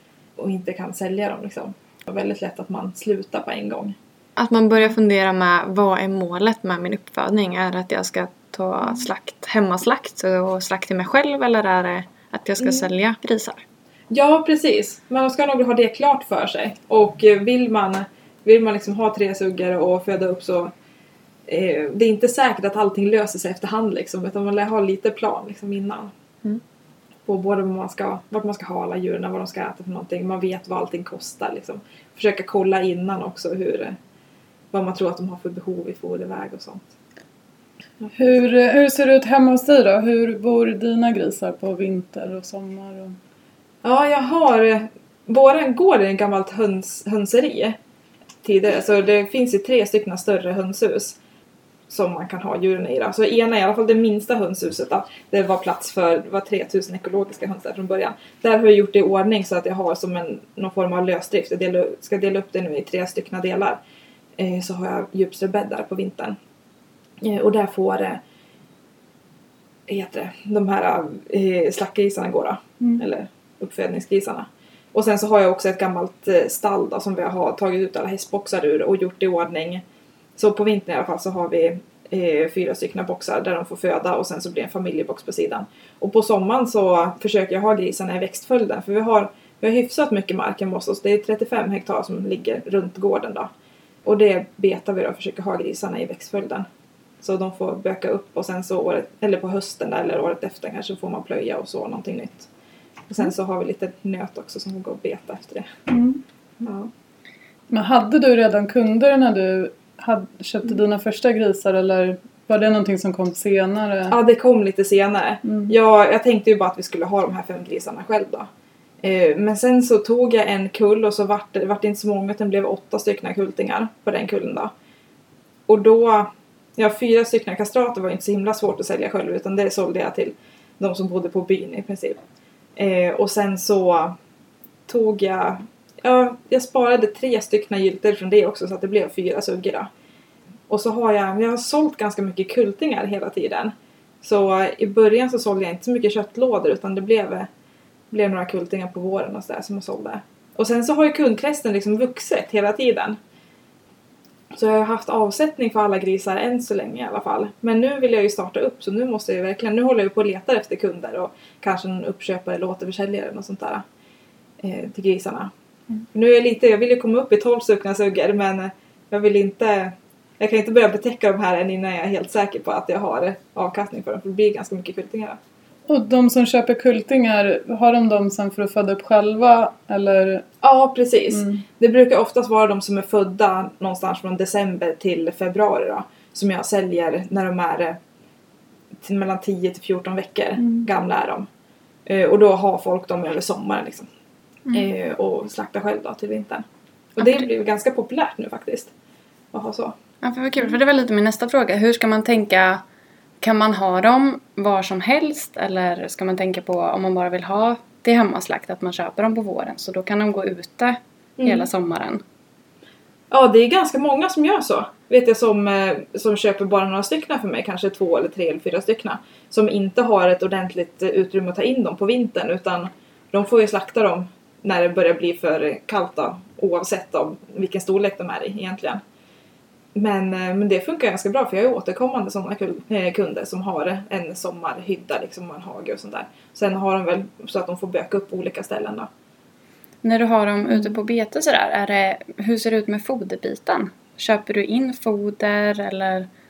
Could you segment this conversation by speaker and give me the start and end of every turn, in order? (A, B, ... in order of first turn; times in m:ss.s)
0:00.4-0:04.0 A
0:04.4-0:13.6 B
0:12.6-0:12.9 A
0:14.1-0:20.7 A
0:21.5-0:26.1 A
0:27.3-0:34.0 A
0:34.7-0:36.9 A
0:38.0-0:38.3 A
0:38.1-0:43.2 C
0:43.8-0:47.8 A
0:48.4-0:51.2 A
0:51.9-1:03.8 A
1:04.4-1:06.4 A
1:07.2-1:08.2 A
1:09.9-1:19.8 A
1:20.4-1:33.5 A
1:34.0-1:36.6 A
1:37.2-1:42.5 A
1:43.1-1:45.7 A
1:45.9-1:46.2 C
1:46.6-1:46.9 A
1:47.7-1:54.2 C
1:54.1-1:58.5 A
1:55.5-1:55.7 C
1:59.0-2:04.7 A
2:05.7-2:12.2 A
2:12.8-2:14.2 A
2:14.9-2:19.9 A
2:20.7-2:27.5 A
2:28.1-2:33.2 A
2:34.5-2:43.8 A
2:44.6-2:45.5 A
2:46.1-2:55.4 A
2:55.9-3:00.4 C
3:00.6-3:08.0 A
3:01.3-3:01.6 C
3:09.0-3:11.5 A
3:12.1-3:14.1 A
3:14.7-3:16.6 A
3:17.2-3:18.9 A
3:19.5-3:19.9 A
3:20.2-3:22.8 B
3:23.4-3:32.2 B
3:31.4-3:31.7 A
3:33.3-3:49.0 A
3:49.9-3:59.1 A
4:00.0-4:06.3 B